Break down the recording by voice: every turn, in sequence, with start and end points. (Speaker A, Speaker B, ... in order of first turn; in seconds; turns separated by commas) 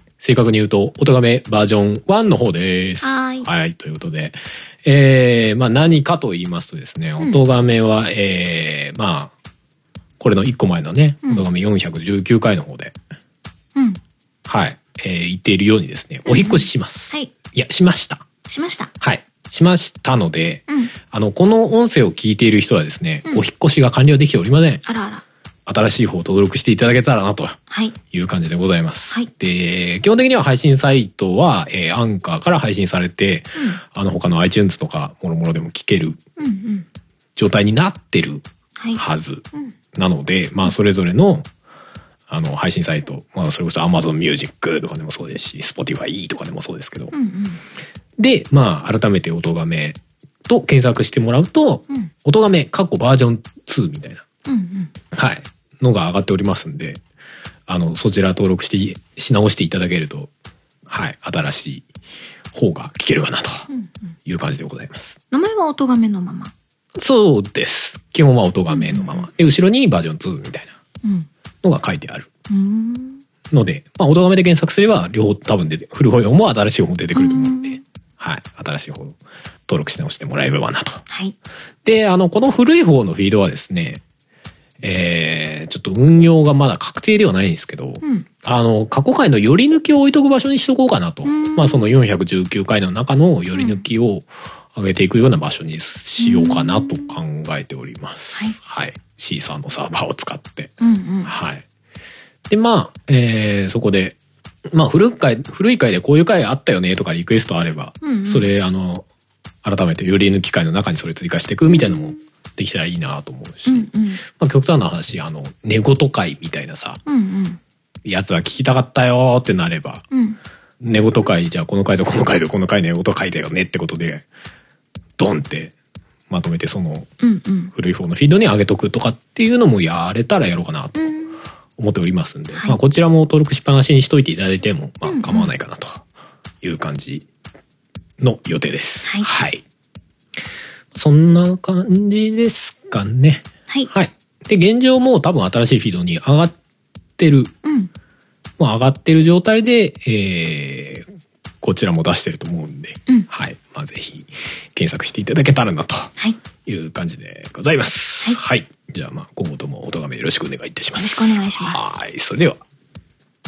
Speaker A: 0.2-9.3, Speaker B: 3.0-3.5, Speaker A: 10.2-12.9, Speaker B: 13.8-14.0, Speaker A: 14.5-18.2, Speaker B: 16.3-17.3, Speaker B: 18.5-18.9, Speaker A: 19.0-24.9, Speaker B: 24.9-25.2, Speaker A: 25.7-27.6, Speaker B: 27.7-27.9, Speaker A: 28.1-36.2, Speaker B: 36.4-36.9, Speaker A: 37.4-41.5, Speaker A: 42.3-47.1, Speaker B: 47.1-47.6, Speaker A: 48.2-54.2, Speaker B: 54.5-54.9, Speaker A: 55.1-57.0, Speaker A: 57.7-60.3, Speaker A: 60.9-61.9, Speaker A: 62.5-63.7, Speaker A: 64.2-65.2, Speaker B: 65.3-66.5, Speaker A: 67.0-70.7, Speaker B: 68.7-69.3, Speaker A: 71.6-72.3, Speaker B: 72.5-73.2, Speaker A: 73.5-81.0, Speaker B: 77.2-77.8, Speaker B: 81.1-81.3, Speaker A: 81.8-84.0, Speaker A: 84.8-101.7, Speaker B: 91.2-92.0, Speaker B: 93.5-93.8, Speaker B: 96.2-97.2, Speaker B: 100.8-101.3, Speaker A: 102.5-104.2, Speaker A: 104.7-109.0, Speaker B: 108.0-108.5, Speaker A: 109.6-117.0, Speaker B: 111.7-112.2, Speaker B: 113.7-114.2, Speaker B: 117.1-117.6, Speaker A: 118.0-120.0, Speaker B: 120.1-120.4, Speaker A: 120.8-124.3, Speaker A: 125.2-125.7, Speaker A: 126.3-127.1, Speaker B: 127.2-127.7, Speaker A: 127.7-131.2, Speaker B: 131.0-131.4, Speaker A: 131.8-136.0, Speaker B: 132.5-132.8, Speaker B: 135.1-135.5, Speaker A: 136.6-137.3, Speaker A: 138.2-139.6, Speaker B: 139.1-139.3, Speaker A: 140.9-146.6, Speaker A: 147.2-147.5, Speaker B: 147.6-147.9, Speaker A: 148.6-151.1, Speaker A: 151.6-156.1, Speaker A: 156.7-162.6, Speaker B: 161.0-161.9